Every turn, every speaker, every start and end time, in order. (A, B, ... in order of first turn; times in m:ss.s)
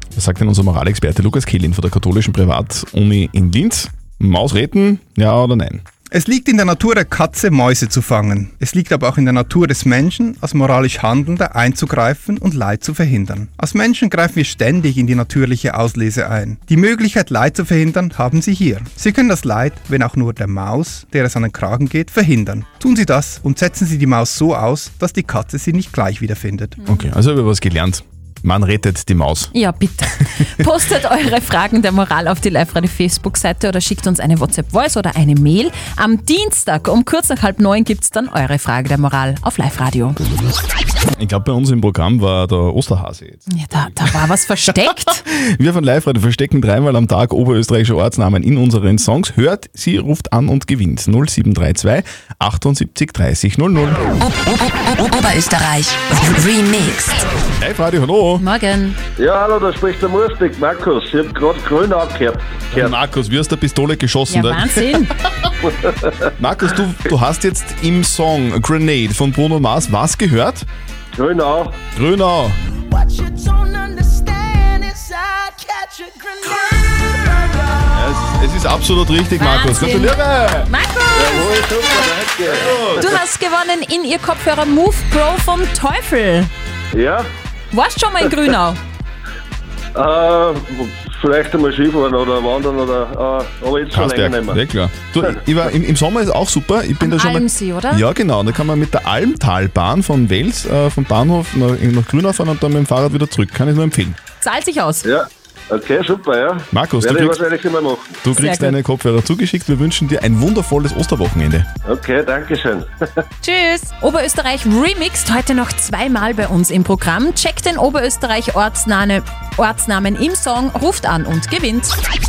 0:00.2-0:05.8 A
0:06.1-0:26.8 B
0:26.8-0:29.5 A
0:29.5-0:40.2 C
0:41.2-0:43.9 A
0:43.5-0:45.2 C
0:45.2-0:54.1 A
0:55.0-0:57.2 D
0:57.6-0:58.4 A
0:58.4-0:59.0 C
0:59.2-1:02.9 E
1:02.7-1:04.8 A
1:04.3-1:05.1 C
1:06.4-1:10.7 A
1:11.1-1:11.8 E
1:12.0-1:12.6 A
1:17.9-1:20.7 A
1:19.4-1:21.7 C
1:21.1-1:23.1 E
1:22.5-1:23.1 A
1:23.0-1:26.5 C
1:26.9-1:27.3 E
1:27.7-1:28.8 C
1:30.0-1:34.6 E
1:33.9-1:44.2 A
1:37.0-1:38.0 C
1:44.4-1:45.1 C
1:45.0-1:48.2 E
1:46.7-1:47.4 A
1:48.2-1:51.7 A
1:48.4-1:48.8 C
1:51.8-1:52.9 E
1:53.4-2:02.0 C